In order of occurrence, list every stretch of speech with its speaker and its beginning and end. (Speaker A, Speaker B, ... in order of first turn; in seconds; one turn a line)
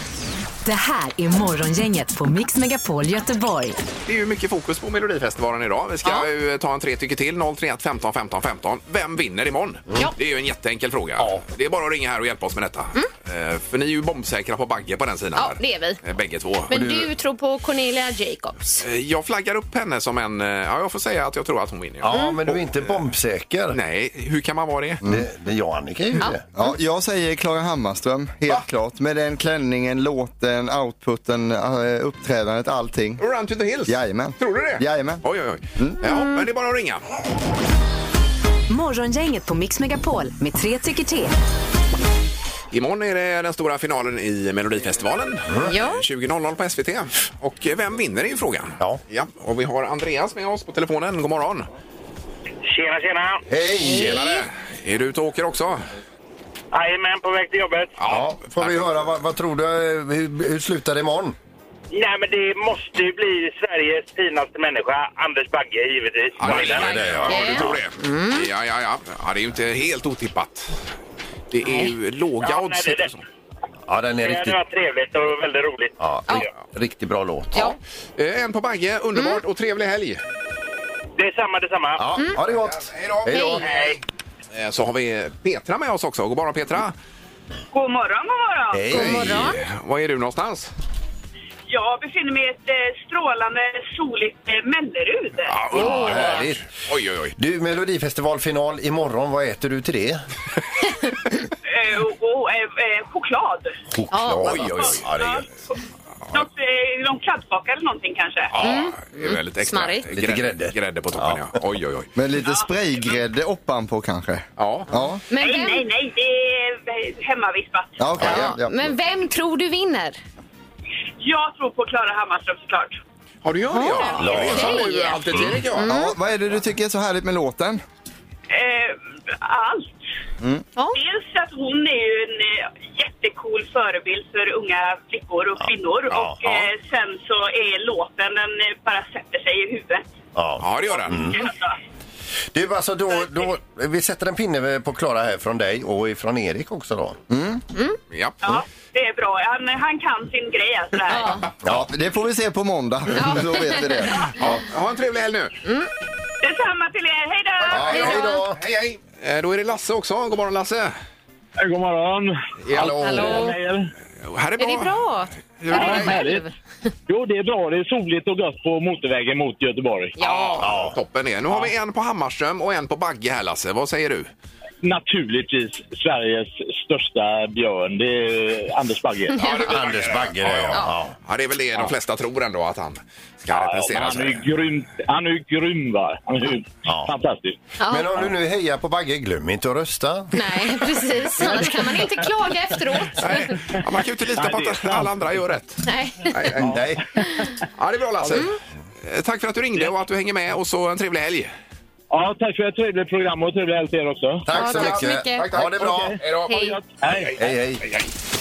Speaker A: 0.6-3.8
Speaker B: 4.1-16.9
Speaker C: 11.2-11.4
Speaker D: 15.4-16.0
Speaker D: 16.7-18.8
Speaker C: 16.7-17.0
Speaker B: 18.8-22.9
Speaker C: 22.0-23.8
Speaker D: 22.1-22.4
Speaker B: 23.7-25.0
Speaker C: 25.0-26.4
Speaker D: 26.2-26.7
Speaker E: 26.6-33.2
Speaker B: 33.2-37.0
Speaker E: 33.9-35.2
Speaker D: 36.0-36.5
Speaker A: 38.7-41.3
Speaker B: 42.7-51.7
Speaker C: 45.5-45.7
Speaker D: 45.6-46.0
Speaker F: 52.7-53.4
Speaker C: 53.5-54.4
Speaker B: 53.8-55.9
Speaker F: 56.7-57.9
Speaker B: 58.0-58.9
Speaker C: 58.1-61.4
Speaker F: 61.9-66.8
Speaker B: 66.4-70.7
Speaker C: 66.4-67.8
Speaker D: 67.2-68.5
Speaker B: 71.5-73.2
Speaker D: 71.6-71.9
Speaker F: 72.5-73.1
Speaker C: 73.9-74.6
Speaker F: 74.2-75.9
Speaker C: 76.0-77.8
Speaker B: 78.2-80.2
Speaker F: 81.2-82.0
Speaker C: 82.0-83.6
Speaker B: 82.6-84.0
Speaker D: 83.3-83.6
Speaker F: 83.6-84.0
Speaker B: 84.5-86.9
Speaker G: 87.7-88.9
Speaker C: 88.7-89.6
Speaker D: 88.9-89.6
Speaker B: 89.2-90.7
Speaker G: 91.7-95.5
Speaker B: 95.5-97.3
Speaker C: 95.7-96.6
Speaker D: 95.7-96.5
Speaker C: 97.4-100.2
Speaker G: 101.7-103.8
Speaker C: 103.9-105.5
Speaker D: 104.1-104.7
Speaker B: 104.4-105.1
Speaker G: 104.8-105.7
Speaker G: 106.3-108.5
Speaker B: 108.5-112.1
Speaker D: 108.6-110.1
Speaker C: 110.1-111.4
Speaker E: 112.2-115.2
Speaker G: 112.4-113.2
Speaker B: 114.6-114.9
Speaker D: 115.3-115.9
Speaker G: 115.3-118.0
Speaker E: 118.0-118.7
Speaker D: 118.2-120.2
Speaker G: 121.2-123.0
Speaker B: 123.4-125.9
Speaker D: 123.7-125.2
Speaker C: 124.2-125.6
Speaker D: 125.8-126.1
Speaker E: 125.8-127.8
Speaker G: 128.5-130.0
Speaker G: 130.9-140.1
Speaker C: 135.6-136.4
Speaker C: 140.4-141.4
Speaker B: 140.6-141.4
Speaker G: 140.9-141.8
Speaker C: 142.5-147.2
Speaker E: 147.3-147.6
Speaker B: 148.1-148.4
Speaker G: 148.4-151.4
Speaker D: 151.1-151.4
Speaker C: 151.6-151.9
Speaker E: 151.7-154.3
Speaker D: 153.1-154.2
Speaker B: 154.4-155.6
Speaker D: 155.6-155.9
Speaker G: 156.4-157.9
Speaker C: 157.7-158.6
Speaker B: 157.7-160.9
Speaker D: 157.9-158.4
Speaker H: 161.6-163.9
Speaker B: 162.7-163.3
Speaker C: 162.7-163.4
Speaker D: 163.0-163.6
Speaker B: 164.2-165.0
Speaker D: 164.6-166.5
Speaker B: 165.6-166.2
Speaker H: 165.7-166.4
Speaker H: 167.1-170.2
Speaker D: 170.2-170.7
Speaker B: 170.2-174.3
Speaker C: 170.6-170.9
Speaker H: 174.8-179.4
Speaker D: 179.4-179.7
Speaker B: 179.4-184.4
Speaker C: 179.6-181.1
Speaker H: 183.5-187.6
Speaker C: 186.9-187.1
Speaker D: 187.8-188.1
Speaker C: 187.9-190.7
Speaker D: 190.3-193.5
Speaker B: 193.2-196.7
Speaker H: 194.3-195.2
Speaker D: 195.8-196.5
Speaker C: 196.6-197.0
Speaker H: 196.6-196.9
Speaker B: 197.8-198.5
Speaker B: 199.0-201.5
Speaker H: 202.1-204.5
Speaker C: 204.4-206.2
Speaker D: 204.5-205.5
Speaker B: 205.5-206.5
Speaker H: 205.6-207.4
Speaker D: 206.4-206.8
Speaker C: 207.4-207.9